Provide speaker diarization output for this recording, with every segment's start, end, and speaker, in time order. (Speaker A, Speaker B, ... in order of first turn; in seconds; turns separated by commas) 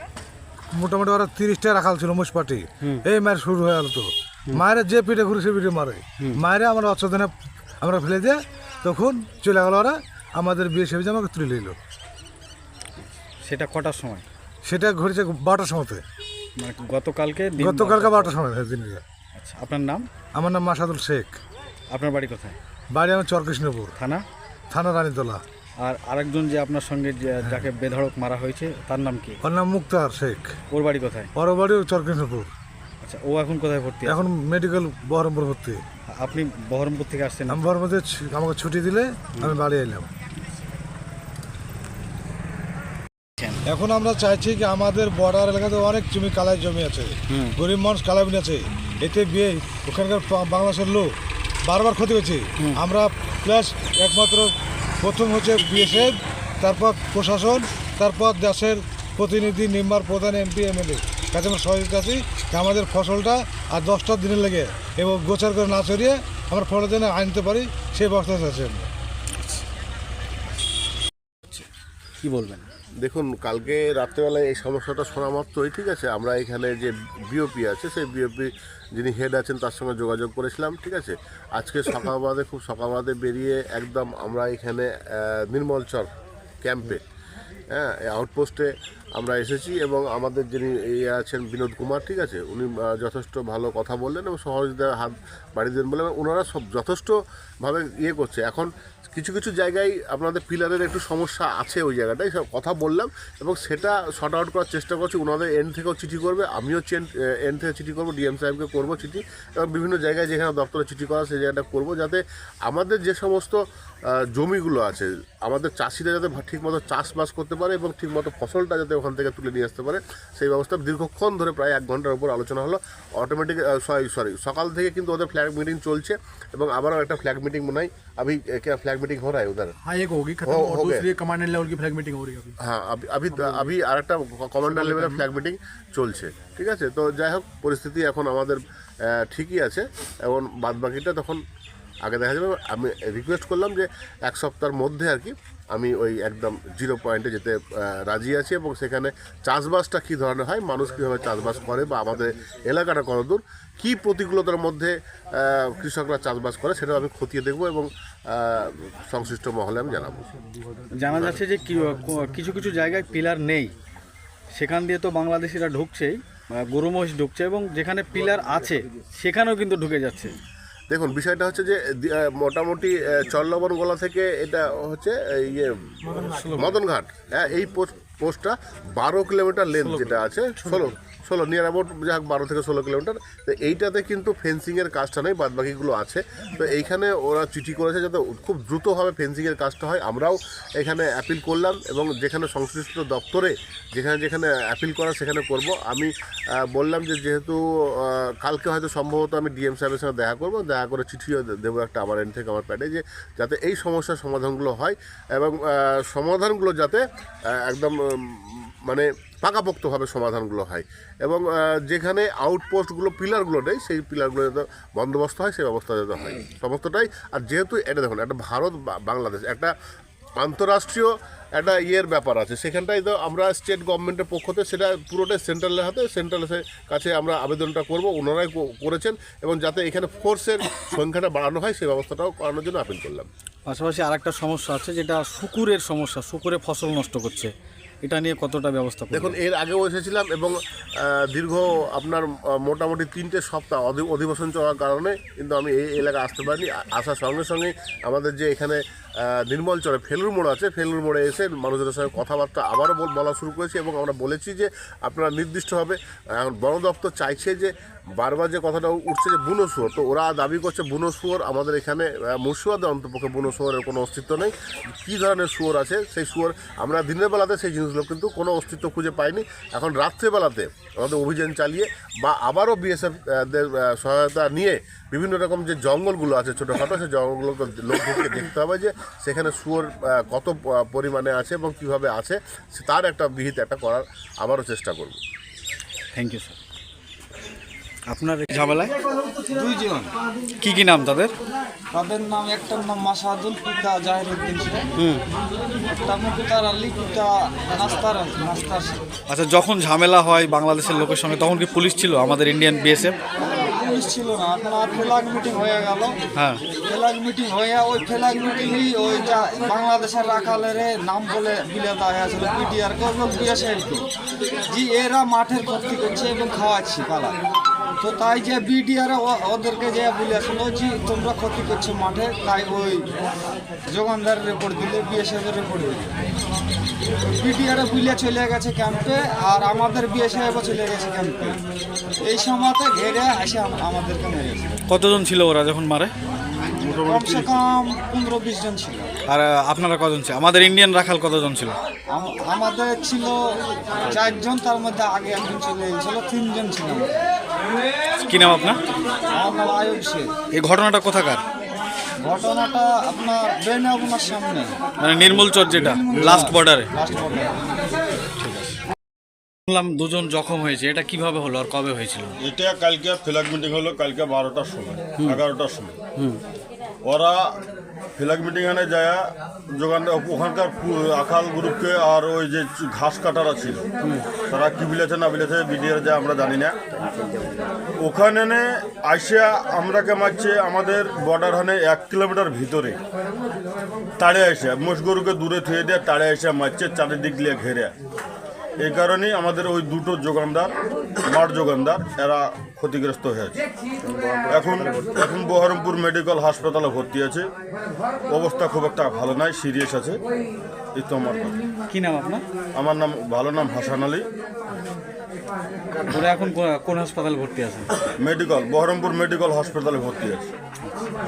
Speaker A: 0.7-11.8, Speaker B: 13.0-14.3, Speaker A: 14.6-16.0, Speaker B: 16.6-18.4, Speaker A: 17.6-19.0, Speaker B: 19.3-20.1, Speaker A: 20.3-21.4, Speaker B: 21.9-22.6, Speaker A: 22.9-23.9, Speaker B: 24.0-24.2, Speaker A: 24.7-25.4, Speaker B: 25.8-29.4, Speaker A: 29.4-30.5, Speaker B: 30.7-31.3, Speaker A: 31.4-32.5, Speaker B: 33.0-34.2, Speaker A: 34.1-35.8, Speaker B: 36.1-37.6, Speaker A: 37.5-40.1, Speaker A: 43.7-51.1, Speaker B: 47.3-47.6, Speaker A: 51.6-68.9, Speaker B: 72.2-72.7, Speaker C: 73.0-86.1, Speaker C: 86.6-87.0, Speaker C: 87.7-113.6, Speaker C: 114.3-129.8, Speaker D: 129.8-132.6, Speaker C: 130.4-131.1, Speaker C: 132.6-141.4, Speaker D: 133.3-133.7, Speaker D: 134.7-135.2, Speaker C: 142.1-160.2, Speaker B: 160.9-163.7, Speaker B: 164.6-170.3, Speaker C: 170.9-207.0, Speaker C: 207.6-219.7, Speaker C: 220.4-233.3, Speaker B: 233.7-237.5, Speaker B: 238.0-239.4, Speaker C: 239.1-264.5, Speaker C: 265.0-285.2, Speaker B: 286.1-286.6, Speaker B: 288.1-288.9, Speaker E: 289.5-290.1, Speaker B: 290.6-291.3, Speaker E: 291.9-294.9, Speaker E: 296.0-299.0, Speaker B: 299.3-303.1, Speaker E: 303.4-306.1, Speaker E: 306.9-314.0, Speaker E: 314.7-317.4, Speaker E: 318.0-323.0, Speaker E: 323.9-326.3, Speaker E: 327.2-331.6, Speaker E: 332.3-334.7, Speaker B: 334.9-336.1, Speaker F: 336.7-337.6, Speaker E: 337.1-339.1, Speaker B: 339.3-341.8, Speaker E: 342.1-343.4, Speaker E: 344.1-347.2, Speaker B: 348.2-348.8, Speaker E: 349.3-350.3, Speaker B: 350.6-351.4, Speaker E: 352.2-354.8, Speaker B: 355.0-356.9, Speaker E: 355.7-357.6, Speaker B: 358.4-358.8, Speaker B: 359.7-362.4, Speaker F: 362.4-366.0, Speaker F: 367.1-367.6, Speaker F: 368.2-369.2, Speaker F: 369.8-373.8, Speaker F: 374.5-376.8, Speaker F: 378.0-383.0, Speaker F: 384.2-387.9, Speaker F: 388.8-390.7, Speaker F: 391.3-393.6, Speaker F: 394.5-397.5, Speaker F: 398.3-400.2, Speaker F: 400.9-401.6, Speaker B: 401.9-402.4, Speaker F: 402.8-404.3, Speaker B: 406.1-407.9, Speaker F: 408.2-410.5